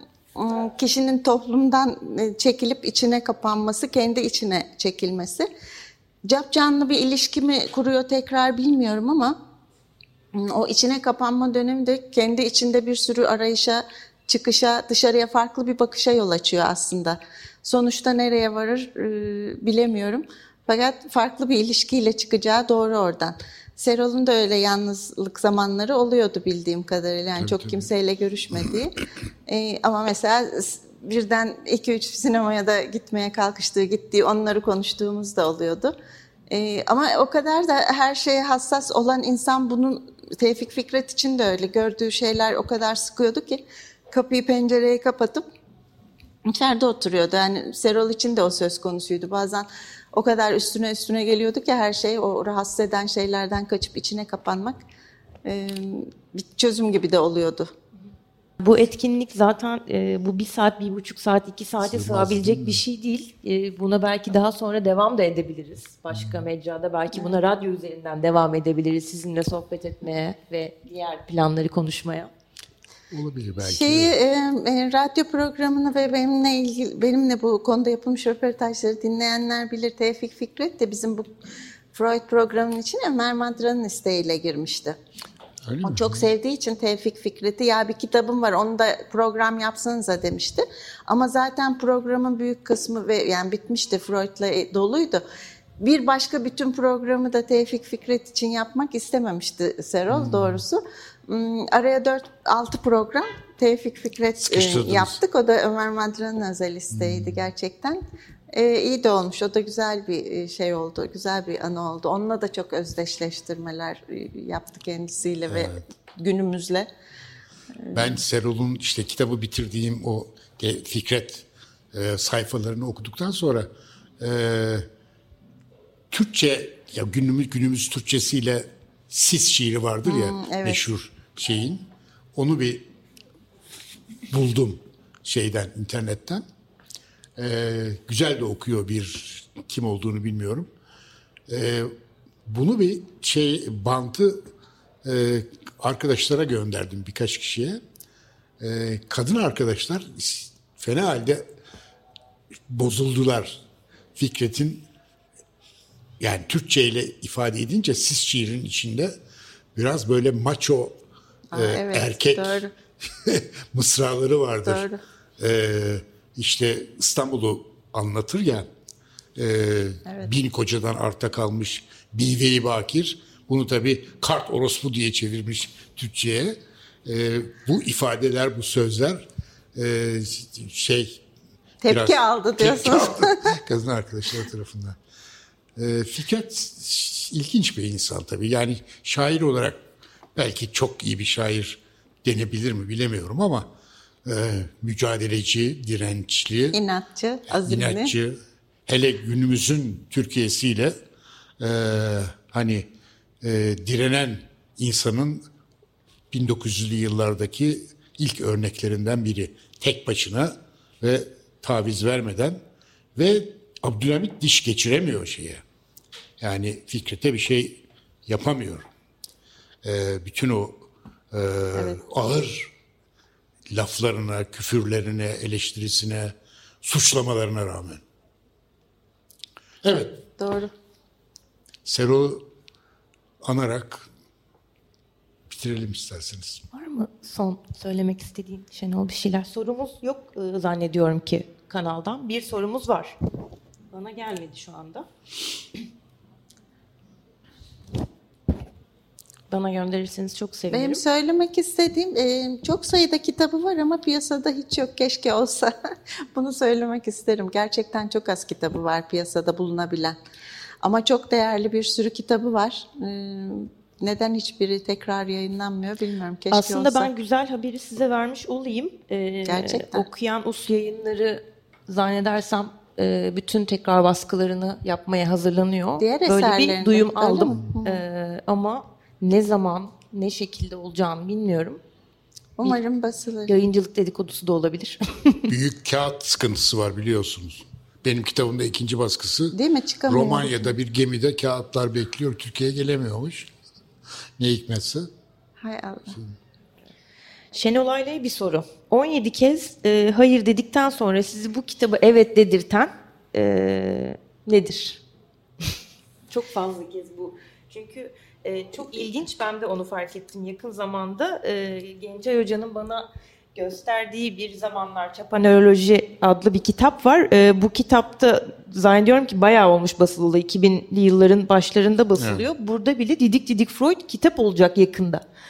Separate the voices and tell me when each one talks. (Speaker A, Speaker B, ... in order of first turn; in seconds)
Speaker A: 0.3-5.5, 6.2-9.4, 10.3-35.9, 36.5-45.5, 46.5-54.8, 55.5-57.7, 73.6-81.3, 81.9-85.0, 85.8-95.2, 95.8-116.9, 117.9-118.2, 130.0-130.8, 161.5-162.7, 164.6-165.0, 170.1-170.3, 181.8-183.6, 196.7-198.1, 221.8-222.0, 230.4-230.7, 250.7-255.7, 256.3-260.2, 260.8-267.1, 269.5-270.1, 276.0-278.0, 282.6-283.6, 289.5-290.7, 295.6-296.2
Speaker B: 27.4-27.8, 61.8-62.8, 66.1-66.5, 73.1-74.2, 85.6-86.3, 100.1-100.6, 104.4-105.2, 106.9-107.5, 115.5-115.8, 117.9-123.7, 124.2-124.9, 126.1-132.9, 134.3-136.4, 137.4-140.7, 141.5-141.9, 142.5-144.5, 145.0-147.8, 148.6-151.5, 152.7-153.6, 154.2-154.9, 156.2-159.2, 159.8-161.0, 161.5-164.9, 165.4-168.7, 169.4-181.2, 181.9-185.0, 185.8-189.8, 190.3-193.7, 194.2-196.8, 197.6-200.9, 201.6-202.9, 203.4-205.4, 206.3-212.6, 213.2-215.6, 216.4-218.9, 219.8-222.7, 223.7-228.0, 229.8-230.2, 231.9-232.5, 233.4-234.1, 235.5-236.6, 285.5-289.6, 290.1-293.5, 294.4-295.1, 322.2-322.5
Speaker C: 58.6-72.3, 236.7-243.2, 243.9-245.1, 249.5-251.0, 266.5-281.8, 283.5-285.5, 297.5-305.0, 306.3-325.2